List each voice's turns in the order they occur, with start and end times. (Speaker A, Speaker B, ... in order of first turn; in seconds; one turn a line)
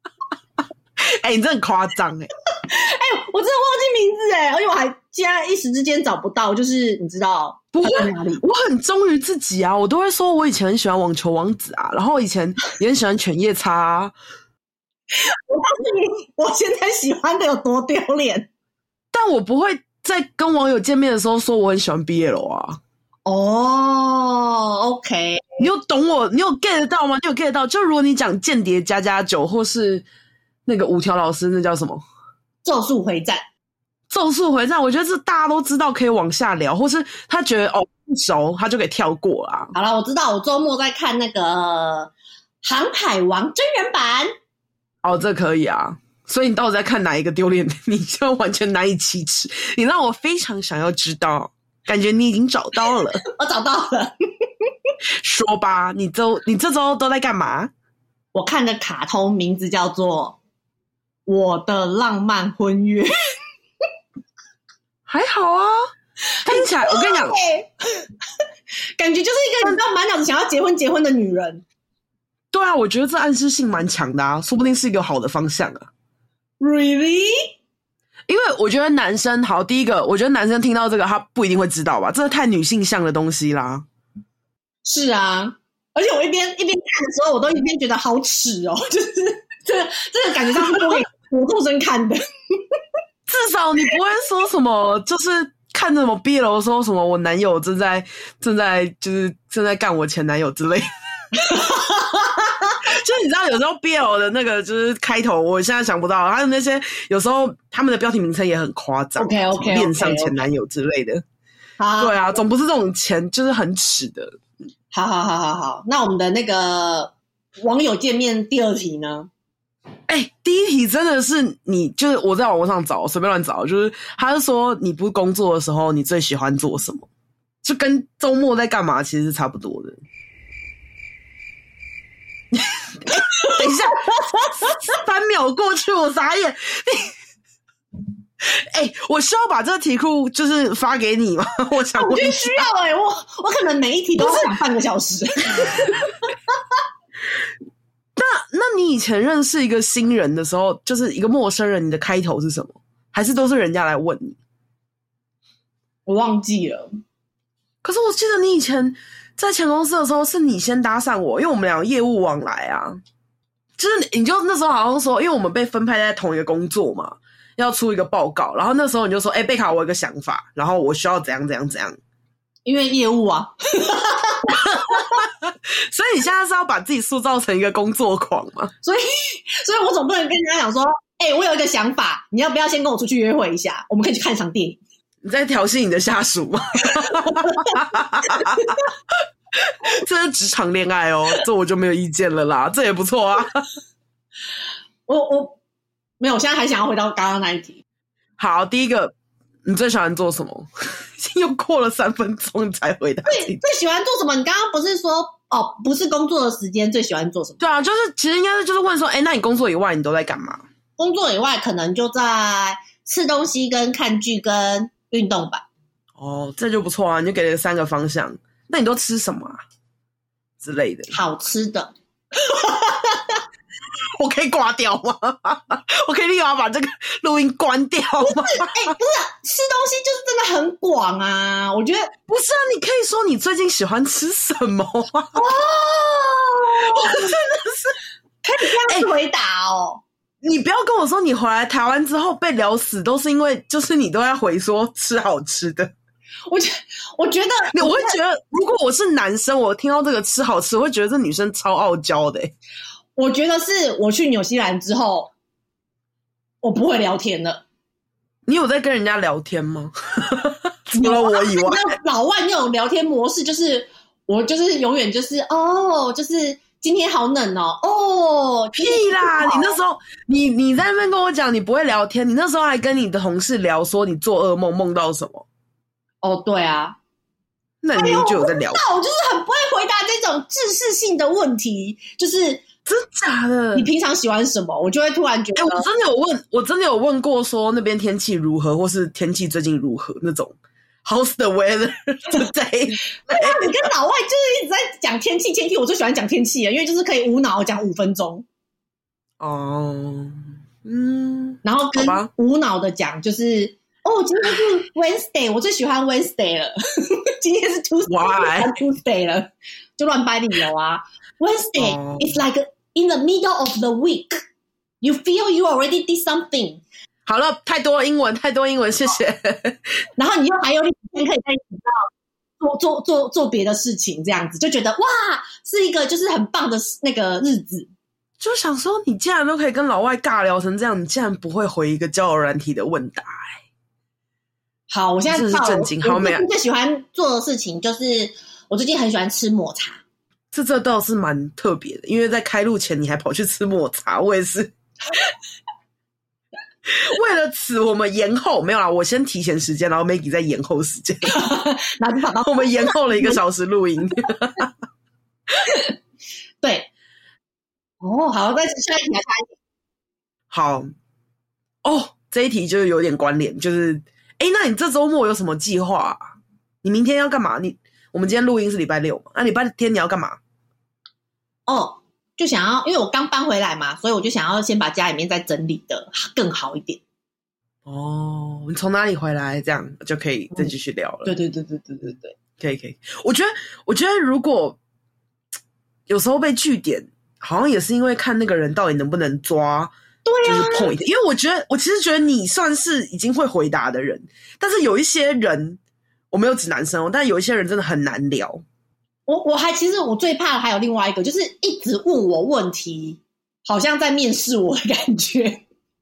Speaker A: 1.0-2.3
Speaker B: 2.6-8.4
Speaker A: 7.7-14.2
Speaker B: 15.1-18.5
Speaker A: 19.1-22.8
Speaker B: 23.3-25.6
Speaker A: 25.6-30.1
Speaker A: 30.7-32.0
Speaker B: 32.6-33.4
Speaker A: 34.1-39.7
Speaker B: 39.7-42.1
Speaker B: 42.6-44.3
Speaker A: 45.0-53.2
Speaker B: 53.2-54.1
Speaker A: 55.2-57.7
Speaker B: 58.4-60.4
Speaker B: 61.3-63.1
Speaker A: 65.1-65.8
Speaker B: 66.3-67.7
Speaker A: 66.5-67.4
Speaker B: 69.0-71.6
Speaker A: 72.5-75.9
Speaker B: 76.6-77.5
Speaker A: 78.3-83.8
Speaker B: 84.8-92.2
Speaker A: 90.6-91.0
Speaker A: 93.3-100.9
Speaker B: 101.3-102.8
Speaker A: 102.8-111.2
Speaker B: 109.2-110.4
Speaker B: 111.8-112.4
Speaker A: 112.0-114.4
Speaker B: 114.9-119.3
Speaker A: 120.1-127.1
Speaker A: 127.6-130.0
Speaker A: 132.5-137.1
Speaker B: 133.1-134.8
Speaker A: 138.4-142.7
Speaker B: 142.0-146.3
Speaker A: 144.2-144.5
Speaker A: 148.2-154.4
Speaker B: 156.1-156.9
Speaker A: 157.8-163.0
Speaker A: 163.8-172.0
Speaker B: 172.7-175.2
Speaker A: 174.6-178.7
Speaker B: 178.8-184.8
Speaker A: 185.2-193.7
Speaker B: 187.0-188.8
Speaker B: 195.1-195.6
Speaker B: 196.2-197.8
Speaker A: 198.4-199.1
Speaker A: 199.7-203.6
Speaker B: 203.3-207.6
Speaker A: 207.6-210.6
Speaker B: 211.0-215.7
Speaker A: 216.2-219.6
Speaker A: 220.6-221.1
Speaker B: 221.1-223.4
Speaker A: 224.2-228.9
Speaker B: 228.2-232.1
Speaker A: 232.3-235.4
Speaker B: 235.3-237.3
Speaker A: 236.8-238.0
Speaker B: 238.4-240.0
Speaker A: 240.4-245.9
Speaker B: 246.5-248.2
Speaker A: 247.7-252.5
Speaker B: 253.2-255.3
Speaker B: 256.6-257.6
Speaker A: 258.5-261.9
Speaker B: 261.0-269.8
Speaker A: 268.8-275.4
Speaker B: 276.2-277.0
Speaker A: 277.8-278.8
Speaker B: 278.0-282.6
Speaker A: 282.9-283.9
Speaker B: 283.8-285.9
Speaker A: 285.6-293.9
Speaker B: 293.1-298.4
Speaker A: 299.4-302.3
Speaker B: 301.6-314.4
Speaker A: 308.1-308.7
Speaker A: 311.8-312.4
Speaker B: 315.0-316.8
Speaker A: 317.3-319.9
Speaker B: 320.2-322.1
Speaker B: 322.6-327.9
Speaker A: 328.4-333.6
Speaker B: 334.9-340.0
Speaker A: 335.3-336.4
Speaker A: 340.5-344.7
Speaker A: 346.9-351.4
Speaker B: 351.2-353.4
Speaker A: 352.4-354.7
Speaker B: 355.6-355.9
Speaker B: 356.6-356.9
Speaker B: 358.0-359.5
Speaker A: 360.5-360.9
Speaker A: 361.9-370.4
Speaker B: 371.7-377.0
Speaker A: 377.9-381.3
Speaker B: 381.2-382.4
Speaker A: 382.6-384.8
Speaker A: 386.1-389.9
Speaker B: 390.2-390.9
Speaker A: 390.4-395.8
Speaker A: 396.3-398.6
Speaker B: 399.3-405.6